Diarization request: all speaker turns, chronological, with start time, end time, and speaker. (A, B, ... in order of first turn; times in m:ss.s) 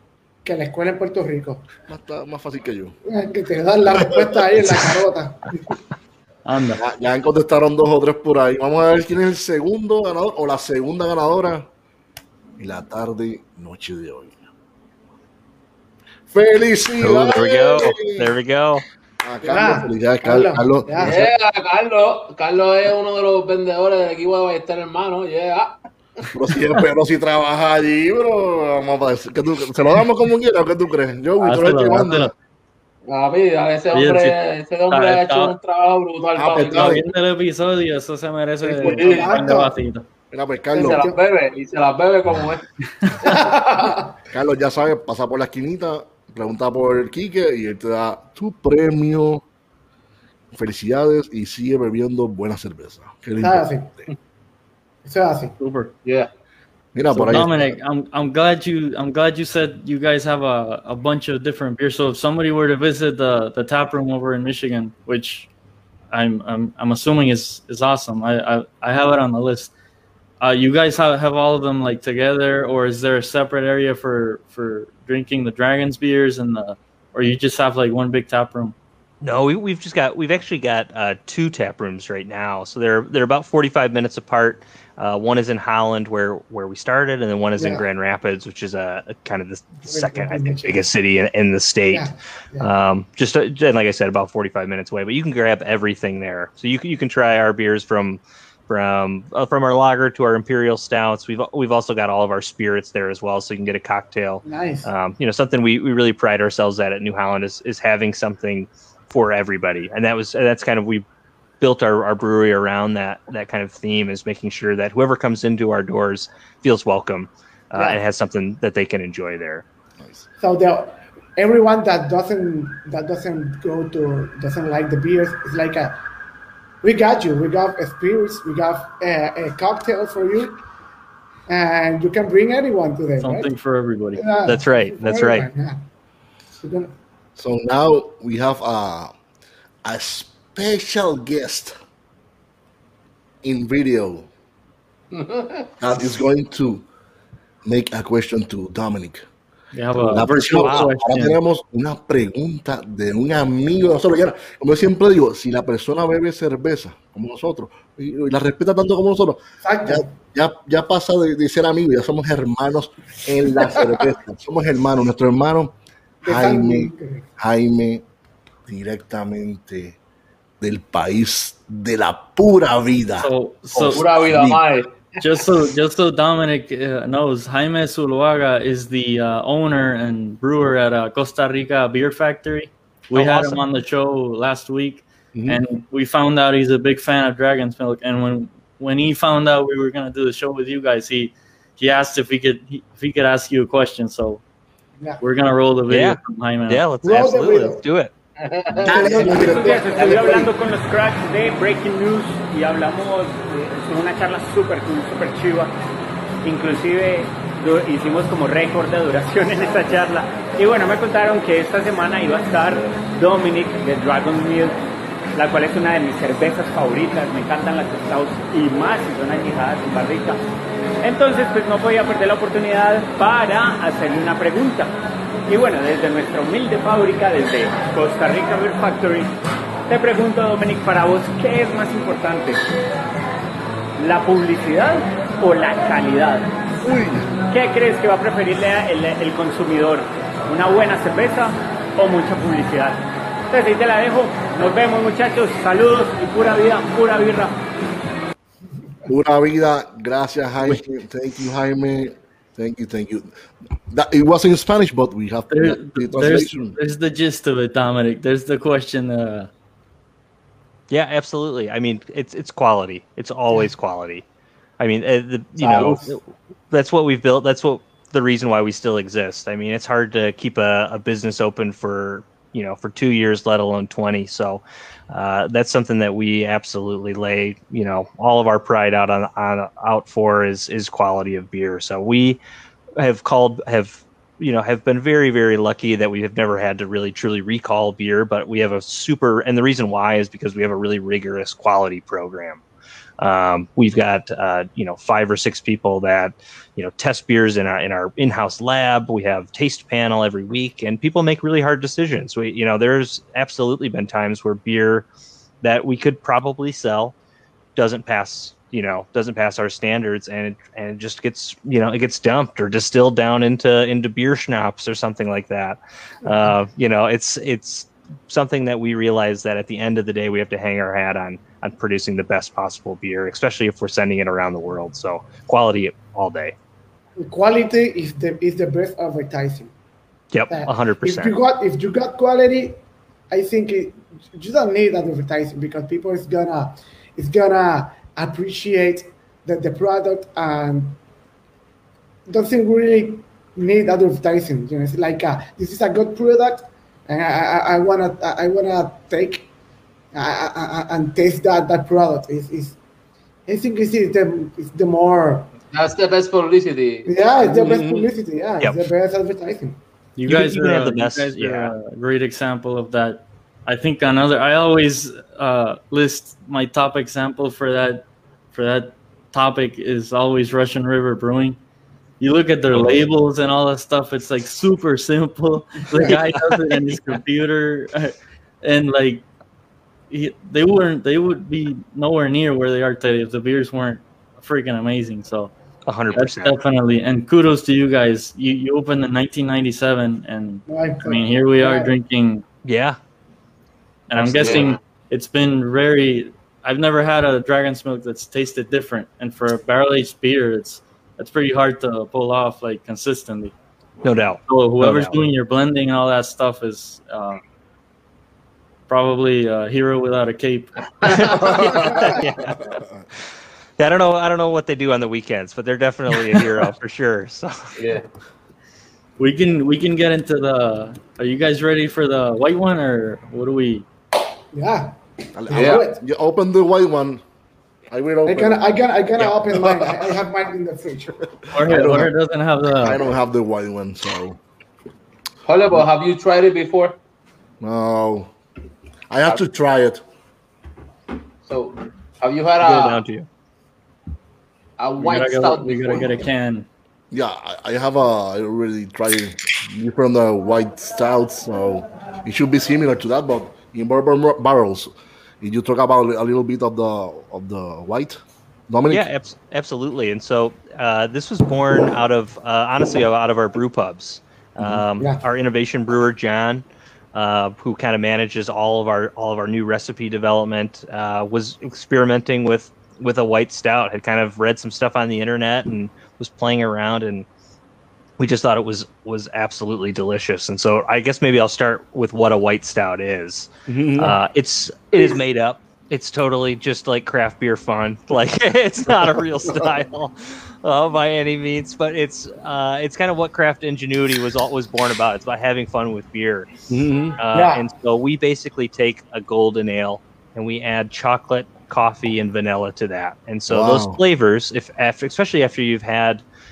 0:00.4-0:01.7 A
0:01.9-0:03.0 B
0:03.1-0:05.8 A
0:03.9-0:05.0 B
0:06.5-0:06.8 C
0:06.8-0:11.7 B
0:12.6-0:14.4 B
0:16.3-0:18.3 B
0:17.0-0:18.8 D
0:19.2-0:21.3 B
0:19.4-0:21.1 A
0:21.0-0:25.8 E
0:26.3-0:32.3 B
0:31.4-0:32.3 C
0:33.1-0:37.0 E
0:33.9-0:34.4 C
0:34.9-0:35.6 C
0:36.4-0:37.0 B
0:36.7-0:40.1 C
0:38.7-0:39.8 A
0:38.8-0:39.3 E
0:40.3-0:41.0 B
0:40.7-0:41.2 A
0:40.8-0:42.7 E
0:43.2-0:44.2 A
0:44.3-0:49.4 B
0:50.5-0:53.8 B
0:53.4-0:54.0 A
0:55.0-0:55.6 A
0:55.6-0:55.9 C
0:56.0-0:56.3 E
0:56.9-0:57.8 B
0:57.1-1:05.5 C
1:06.1-1:09.7 C
1:10.4-1:18.8 C
1:19.2-1:51.0 D
1:27.6-1:27.8 A
1:29.9-1:30.8 A
1:31.9-1:32.7 A
1:44.4-1:44.9 A
1:51.6-1:59.7 D
2:00.0-2:00.3 B
2:00.4-2:06.0 A
2:06.8-2:10.6 A
2:11.5-2:13.5 A
2:13.2-2:14.2 C
2:14.2-2:15.8 A
2:14.5-2:15.5 D
2:16.6-2:16.9 A
2:17.4-2:19.1 B
2:19.8-2:21.8 B
2:23.4-2:24.3 B
2:25.1-2:25.7 E
2:25.8-2:26.9 B
2:27.6-2:29.2 B
2:29.7-2:31.4 C
2:30.0-2:45.7 B
2:30.5-2:30.9 D
2:39.6-2:40.1 A
2:43.6-2:44.0 A
2:46.2-2:47.3 A
2:46.2-2:48.0 B
2:48.7-2:50.0 B
2:50.6-2:54.6 B
2:53.2-2:54.0 C
2:53.9-2:55.2 E
2:55.2-3:14.4 C
3:03.1-3:03.6 D
3:05.4-3:05.6 B
3:15.2-3:16.8 C
3:15.9-3:18.1 D
3:17.0-3:17.8 A
3:18.4-3:19.0 E
3:18.8-3:20.5 B
3:18.9-3:20.5 A
3:19.0-3:25.7 F
3:26.4-3:34.8 F
3:35.4-3:40.4 F
3:41.0-3:44.9 F
3:45.5-3:49.3 F
3:49.9-3:52.6 F
3:54.0-3:56.5 F
3:56.8-3:57.3 B
3:57.5-4:07.6 F
4:09.1-4:13.3 B
4:13.9-4:16.8 B
4:15.5-4:19.5 C
4:20.9-4:24.2 D
4:24.8-4:42.4 D
4:25.6-4:26.0 E
4:43.0-4:52.6 D
4:53.2-5:05.1 D
5:05.6-5:07.1 D
5:07.8-5:26.6 D
5:27.2-5:29.7 A
5:30.3-5:31.4 D
5:30.5-5:32.8 A
5:33.3-5:41.0 A
5:42.3-5:49.5 A
5:50.1-5:52.8 A
5:53.5-5:55.5 A
5:55.7-5:57.1 E
5:57.1-5:59.8 A
5:57.4-5:58.1 B
6:00.2-6:11.6 C
6:00.3-6:01.7 D
6:12.2-6:19.3 C
6:12.7-6:13.0 D
6:16.0-6:17.2 D
6:20.1-6:25.5 C
6:25.9-6:26.5 D
6:26.1-6:32.4 C
6:30.7-6:31.9 A
6:32.6-6:33.0 D
6:34.1-6:43.5 C
6:34.2-6:34.7 D
6:34.4-6:34.8 E
6:44.0-6:45.2 D
6:44.5-6:47.4 C
6:48.9-6:50.8 C
6:51.0-6:51.5 E
6:51.1-6:52.8 D
6:51.3-6:53.0 B
6:53.8-6:57.7 D
6:57.8-6:58.1 E
6:59.2-7:03.9 C
7:04.5-7:05.0 A
7:05.4-7:07.2 B
7:05.5-7:06.0 A
7:05.5-7:05.8 E
7:07.9-7:08.6 B
7:08.3-7:11.3 A
7:09.2-7:10.1 B
7:11.5-7:13.0 C
7:11.6-7:12.1 B
7:12.8-7:14.4 B
7:15.4-7:17.0 E
7:17.6-7:18.3 B
7:19.1-7:20.0 B
7:21.4-7:23.0 E
7:22.6-7:23.3 D
7:24.8-7:26.2 E
7:25.0-7:26.7 C
7:27.1-7:39.0 B
7:38.9-7:57.3 D
7:44.6-7:44.9 B
7:58.2-8:16.5 D
8:03.7-8:04.2 B
8:16.7-8:17.2 B
8:17.2-8:26.2 D
8:17.3-8:17.6 A
8:23.5-8:24.0 B